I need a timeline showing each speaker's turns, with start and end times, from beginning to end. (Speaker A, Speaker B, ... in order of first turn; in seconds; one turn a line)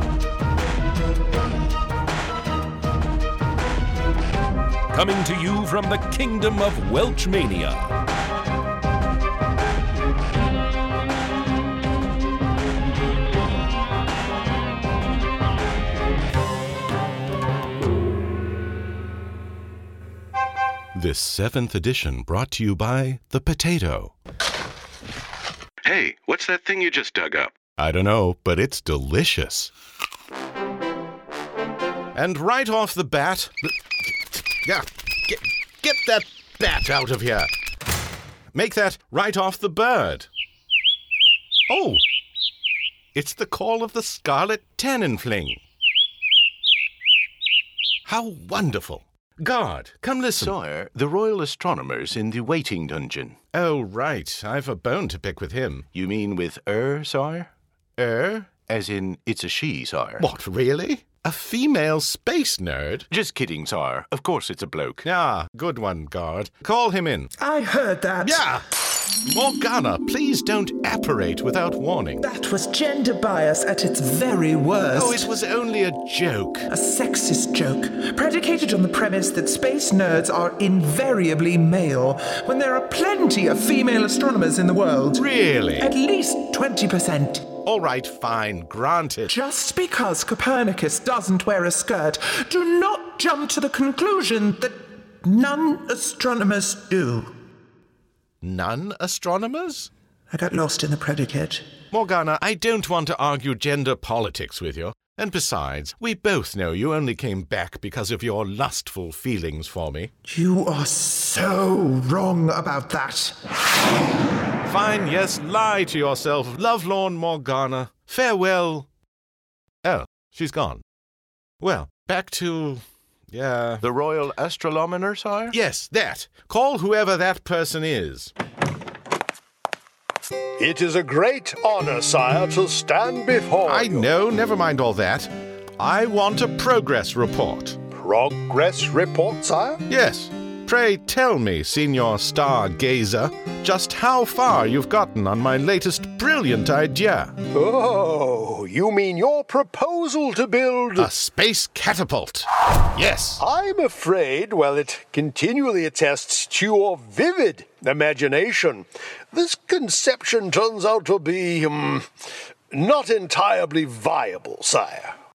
Speaker A: 4.9-7.9
Speaker B: 20.9-24.1
Speaker C: 25.8-27.5
Speaker B: 27.6-29.7
Speaker B: 32.1-33.8
Speaker B: 34.5-37.5
Speaker B: 38.5-40.3
Speaker B: 41.7-42.0
Speaker B: 43.1-45.6
Speaker B: 48.0-50.5
Speaker C: 50.3-53.5
Speaker B: 53.5-55.9
Speaker C: 55.9-60.3
Speaker B: 60.2-63.1
Speaker C: 63.1-65.1
Speaker B: 65.0-67.3
Speaker D: 67.4-68.5
Speaker B: 68.2-68.6
Speaker B: 69.2-72.2
Speaker D: 72.2-75.3
Speaker B: 74.9-76.7
Speaker D: 76.7-85.2
Speaker B: 85.1-85.9
Speaker D: 85.8-87.5
Speaker B: 87.6-89.3
Speaker D: 89.3-97.3
Speaker B: 98.4-99.9
Speaker D: 100.3-101.6
Speaker B: 101.9-110.1
Speaker D: 110.2-113.4
Speaker B: 114.7-118.9
Speaker B: 119.8-120.8
Speaker B: 121.6-123.8
Speaker C: 123.8-125.5
Speaker B: 125.5-128.3
Speaker E: 130.6-134.1
Speaker B: 133.6-137.8
Speaker E: 137.9-139.8
Speaker B: 139.9-147.3
Speaker E: 147.5-151.1
Speaker B: 151.0-153.4
Speaker E: 153.4-162.1
Speaker E: 162.7-165.1